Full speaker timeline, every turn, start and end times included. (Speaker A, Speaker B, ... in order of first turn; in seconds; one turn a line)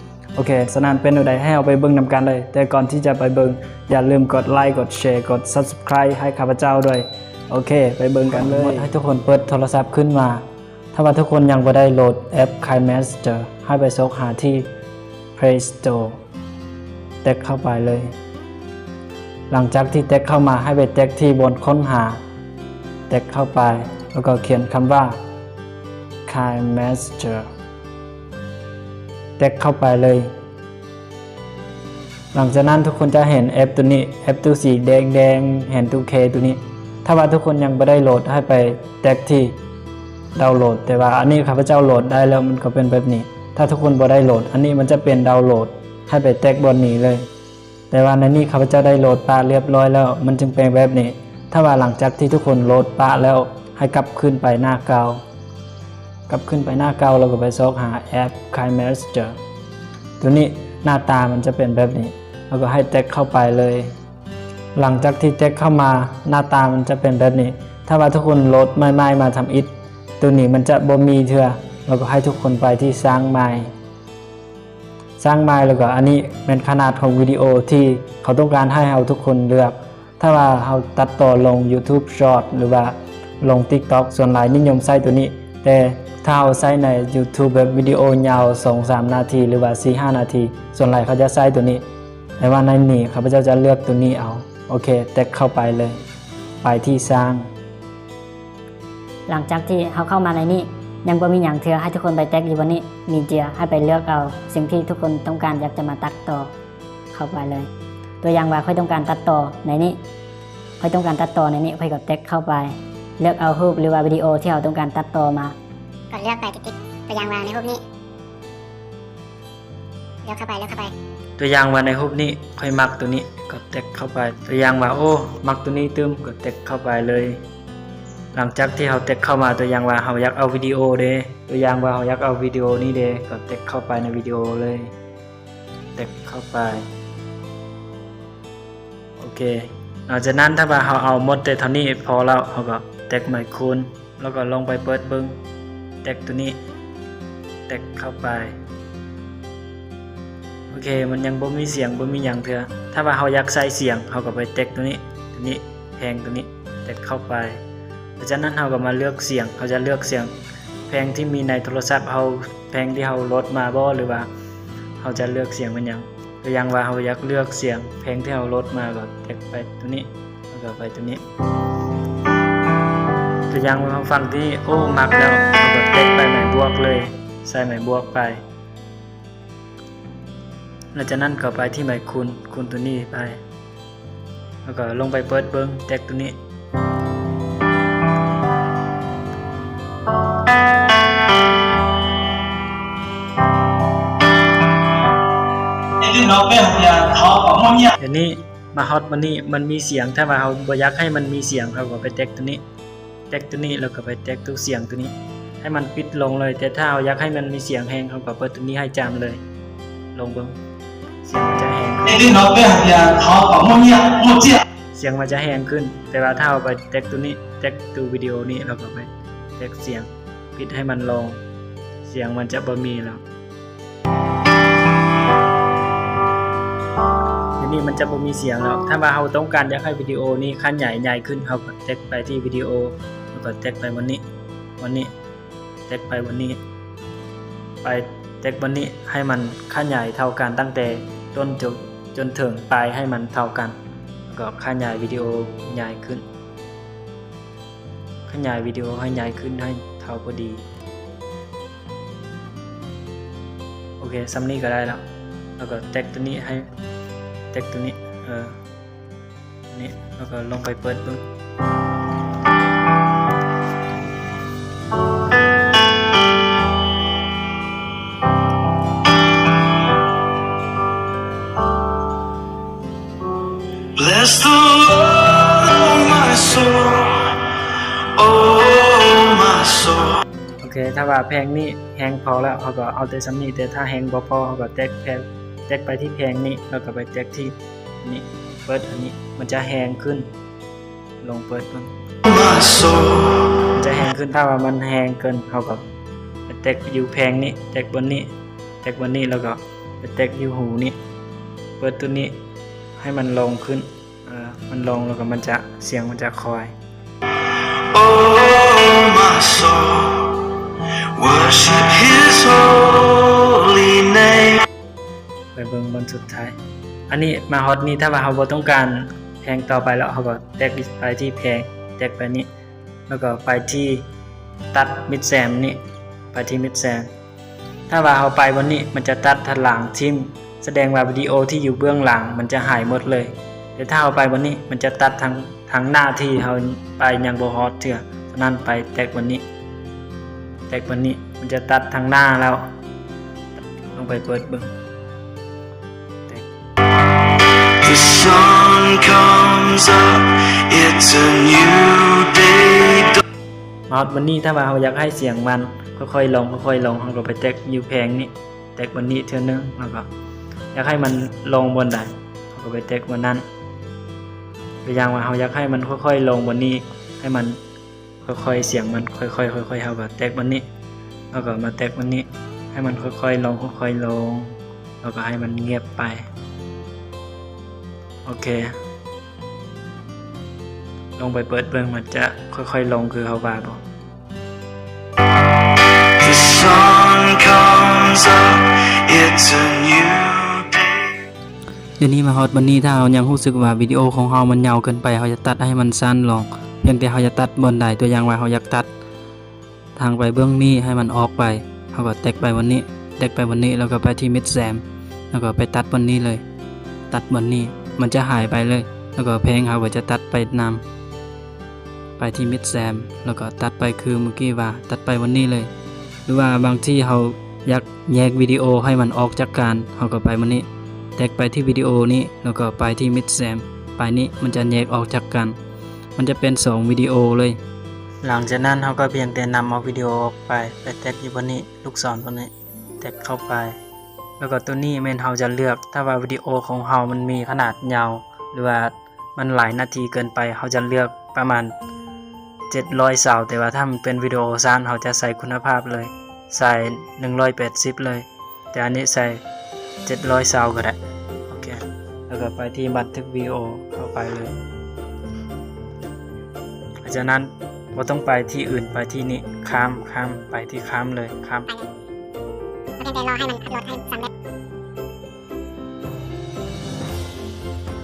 Speaker A: 0.3-14.7
Speaker A: 15.3-16.2
Speaker A: 17.2-18.1
Speaker A: 19.5-22.2
Speaker A: 23.1-25.2
Speaker A: 26.3-27.5
Speaker A: 29.4-30.3
Speaker A: 32.3-39.5
Speaker A: 40.3-47.2
Speaker A: 47.9-55.2
Speaker A: 56.3-59.4
Speaker A: 60.2-63.9
Speaker A: 64.8-73.7
Speaker A: 75.2-91.8
Speaker A: 92.4-96.0
Speaker A: 96.6-97.5
Speaker B: 99.3-106.5
Speaker B: 107.1-107.7
Speaker B: 108.2-110.0
Speaker B: 110.8-115.5
Speaker C: 116.1-117.8
Speaker C: 120.2-120.9
Speaker A: 121.4-127.4
Speaker A: 128.3-134.9
Speaker A: 135.9-136.8
Speaker A: 139.2-145.4
Speaker A: 146.0-146.6
Speaker A: 147.7-148.6
Speaker A: 150.7-157.6
Speaker A: 158.2-160.3
Speaker A: 160.9-164.3
Speaker A: 165.0-171.2
Speaker A: 173.5-178.4
Speaker A: 180.9-183.4
Speaker A: 184.6-186.4
Speaker D: 196.0-197.9
Speaker A: 198.0-202.6
Speaker A: 203.3-209.4
Speaker A: 210.1-210.6
Speaker A: 211.2-212.4
Speaker D: 212.1-214.6
Speaker A: 214.9-221.4
Speaker A: 222.0-223.2
Speaker A: 227.6-234.2
Speaker A: 234.8-235.1
Speaker A: 235.9-236.6
Speaker A: 237.8-243.8
Speaker A: 244.3-246.2
Speaker A: 248.3-250.7
Speaker A: 254.0-255.0
Speaker A: 255.6-256.7
Speaker A: 257.5-258.6
Speaker A: 259.7-261.2
Speaker E: 273.9-277.4
Speaker E: 278.1-280.2
Speaker A: 280.6-290.3
Speaker A: 291.2-291.9
Speaker E: 292.3-293.6
Speaker A: 293.7-295.9
Speaker A: 296.5-298.3
Speaker A: 298.8-300.9
Speaker A: 301.8-302.4
Speaker A: 303.0-306.7
Speaker E: 307.9-310.4
Speaker E: 311.1-314.6
Speaker A: 315.5-316.6
Speaker A: 317.1-322.5
Speaker A: 323.1-324.1
Speaker A: 324.7-325.8
Speaker A: 326.3-327.1
Speaker A: 327.9-339.4
Speaker A: 340.7-342.6
Speaker A: 343.9-344.7
Speaker E: 347.8-353.2
Speaker A: 353.9-360.1
Speaker A: 360.7-363.4
Speaker A: 364.8-367.6
Speaker A: 368.2-370.6
Speaker A: 371.3-376.3
Speaker A: 378.2-378.8
Speaker A: 381.2-383.8
Speaker E: 386.2-391.1
Speaker A: 392.0-398.9
Speaker A: 399.9-406.4
Speaker A: 407.1-410.8
Speaker A: 412.2-415.7
Speaker A: 416.3-420.6
Speaker A: 421.2-425.6
Speaker A: 426.2-427.6
Speaker A: 428.2-433.8
Speaker A: 434.4-441.7
Speaker A: 442.7-449.4
Speaker A: 450.0-454.6
Speaker A: 457.0-461.7
Speaker C: 463.0-464.3